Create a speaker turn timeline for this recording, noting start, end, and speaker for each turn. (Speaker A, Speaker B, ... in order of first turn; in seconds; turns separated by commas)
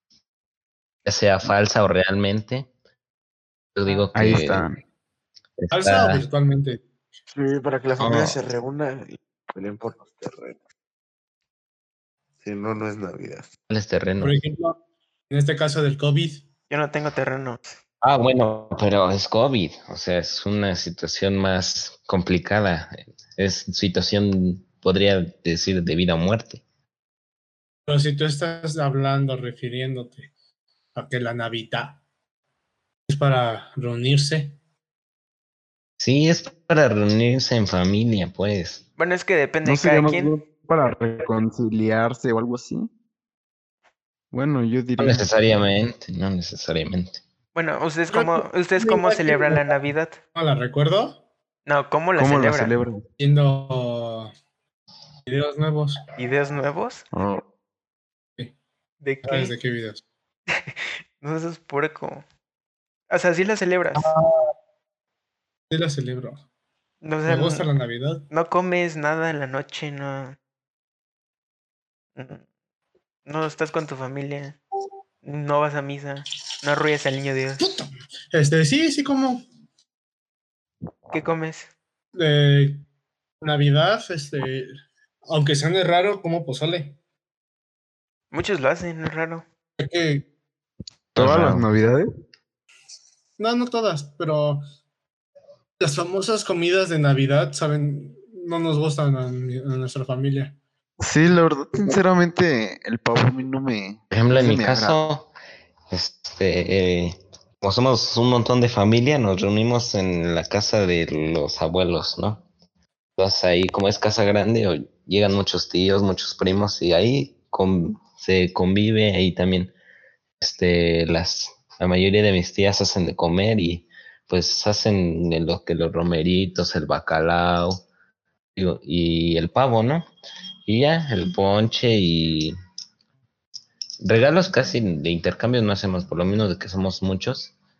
Speaker A: 1.0-2.7, Speaker A: 3.7-4.7, Speaker B: 4.1-4.8, Speaker A: 5.6-6.2, Speaker C: 5.7-6.8, Speaker D: 7.3-10.6, Speaker B: 8.0-8.4, Speaker D: 12.4-13.5, Speaker A: 13.7-14.4, Speaker C: 14.2-14.8, Speaker C: 15.3-16.4, Speaker E: 16.7-17.8, Speaker A: 18.0-26.6, Speaker C: 27.9-30.3, Speaker C: 30.9-32.0, Speaker C: 33.1-34.5, Speaker A: 36.0-38.8, Speaker E: 39.0-40.3, Speaker B: 39.6-42.9, Speaker B: 44.3-45.3, Speaker A: 45.0-47.2, Speaker E: 47.5-50.2, Speaker C: 48.1-49.8, Speaker C: 50.3-51.2, Speaker E: 51.6-52.7, Speaker B: 52.1-53.0, Speaker C: 53.2-54.3, Speaker C: 55.3-56.0, Speaker E: 56.2-57.0, Speaker B: 57.1-57.4, Speaker E: 59.0-59.5, Speaker C: 59.2-60.0, Speaker E: 60.5-62.2, Speaker E: 63.1-64.1, Speaker C: 63.9-64.5, Speaker C: 65.7-66.4, Speaker E: 67.0-67.7, Speaker C: 67.2-68.2, Speaker E: 68.3-70.4, Speaker E: 72.1-72.4, Speaker E: 73.2-74.6, Speaker E: 75.2-77.7, Speaker C: 77.6-79.4, Speaker E: 81.1-81.7, Speaker C: 82.1-82.8, Speaker C: 83.4-86.9, Speaker E: 88.3-89.4, Speaker C: 89.8-90.2, Speaker A: 91.1-91.7, Speaker B: 91.1-92.0, Speaker C: 93.4-94.6, Speaker C: 95.8-100.5, Speaker B: 101.0-105.0, Speaker A: 104.1-105.3, Speaker A: 105.9-112.4, Speaker A: 113.2-119.7, Speaker A: 120.4-127.8, Speaker A: 128.5-130.1, Speaker A: 130.7-132.5, Speaker A: 134.0-137.5